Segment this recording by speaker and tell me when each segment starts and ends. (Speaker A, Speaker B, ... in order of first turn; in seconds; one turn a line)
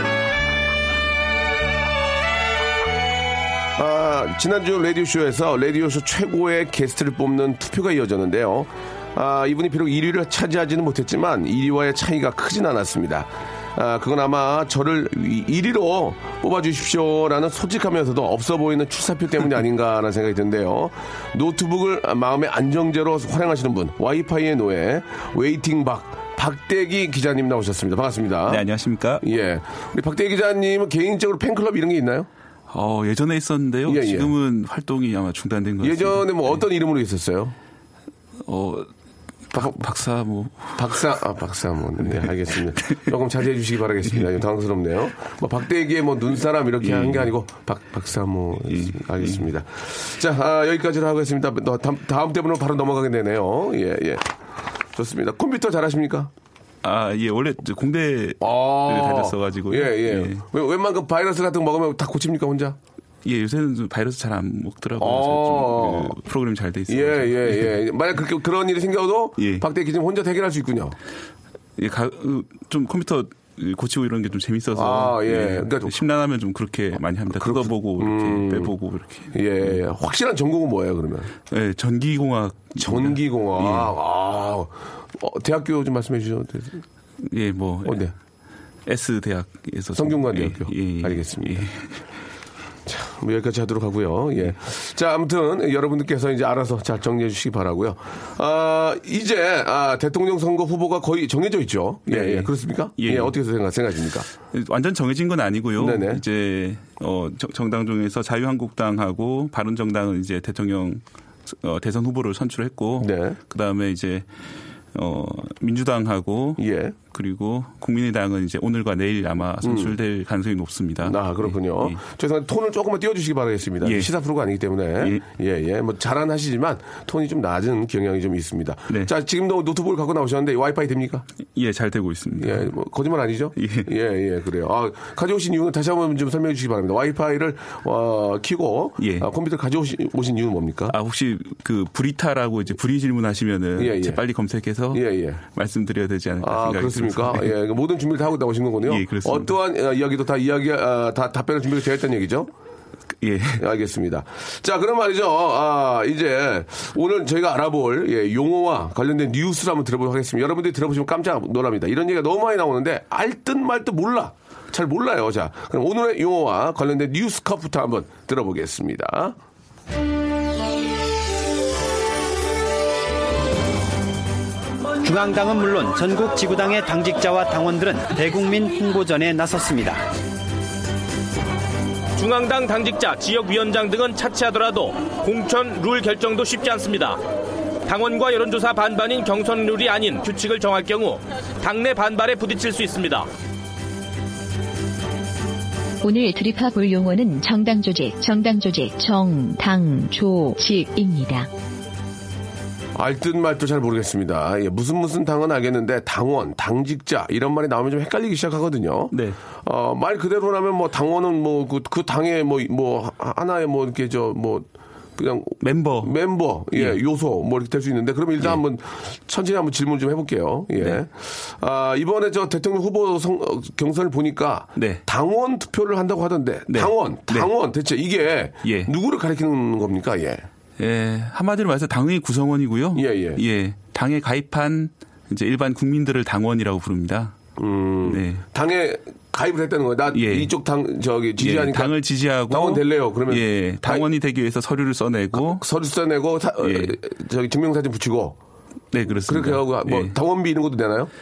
Speaker A: 3.8-28.6
Speaker B: 28.5-29.2
Speaker A: 29.2-32.3
Speaker B: 32.7-36.6
Speaker A: 33.9-34.3
Speaker A: 35.8-37.5
Speaker B: 38.5-38.9
Speaker B: 39.5-41.0
Speaker A: 40.8-54.3
Speaker B: 46.8-47.3
Speaker B: 48.7-49.5
Speaker A: 54.9-56.3
Speaker B: 56.8-60.4
Speaker A: 58.4-62.8
Speaker B: 63.2-67.8
Speaker A: 65.0-66.2
Speaker A: 66.9-71.0
Speaker B: 69.4-69.7
Speaker B: 71.8-79.8
Speaker A: 74.7-76.0
Speaker A: 77.3-78.7
Speaker A: 79.3-81.3
Speaker B: 81.5-83.9
Speaker A: 82.8-86.8
Speaker B: 87.2-88.0
Speaker A: 87.8-88.1
Speaker B: 88.9-91.9
Speaker A: 90.0-91.7
Speaker A: 92.9-104.3
Speaker B: 102.1-103.4
Speaker B: 104.5-114.3
Speaker A: 105.8-106.2
Speaker A: 113.0-113.4
Speaker B: 114.9-122.0
Speaker A: 116.6-117.0
Speaker A: 119.6-120.0
Speaker A: 121.0-131.2
Speaker B: 123.8-124.1
Speaker B: 131.5-132.7
Speaker A: 132.4-140.9
Speaker B: 133.6-133.9
Speaker B: 139.0-139.2
Speaker B: 140.9-147.5
Speaker A: 143.8-144.2
Speaker A: 144.9-145.4
Speaker A: 146.4-152.5
Speaker B: 148.9-149.5
Speaker B: 153.2-153.6
Speaker A: 153.6-169.4
Speaker C: 175.0-180.0
Speaker D: 182.2-187.2
Speaker D: 187.9-193.3
Speaker E: 196.0-201.5
Speaker A: 202.9-230.5
Speaker B: 209.1-209.4
Speaker B: 215.6-216.2
Speaker B: 216.7-217.0
Speaker B: 224.8-225.0
Speaker B: 226.7-227.5
Speaker B: 228.6-228.9
Speaker B: 230.8-237.4
Speaker A: 232.9-233.4
Speaker A: 237.6-241.9
Speaker B: 238.0-238.4
Speaker B: 240.1-240.5
Speaker B: 241.4-245.6
Speaker A: 242.5-244.0
Speaker A: 245.3-248.4
Speaker B: 246.6-246.9
Speaker B: 248.9-250.2
Speaker A: 249.2-251.1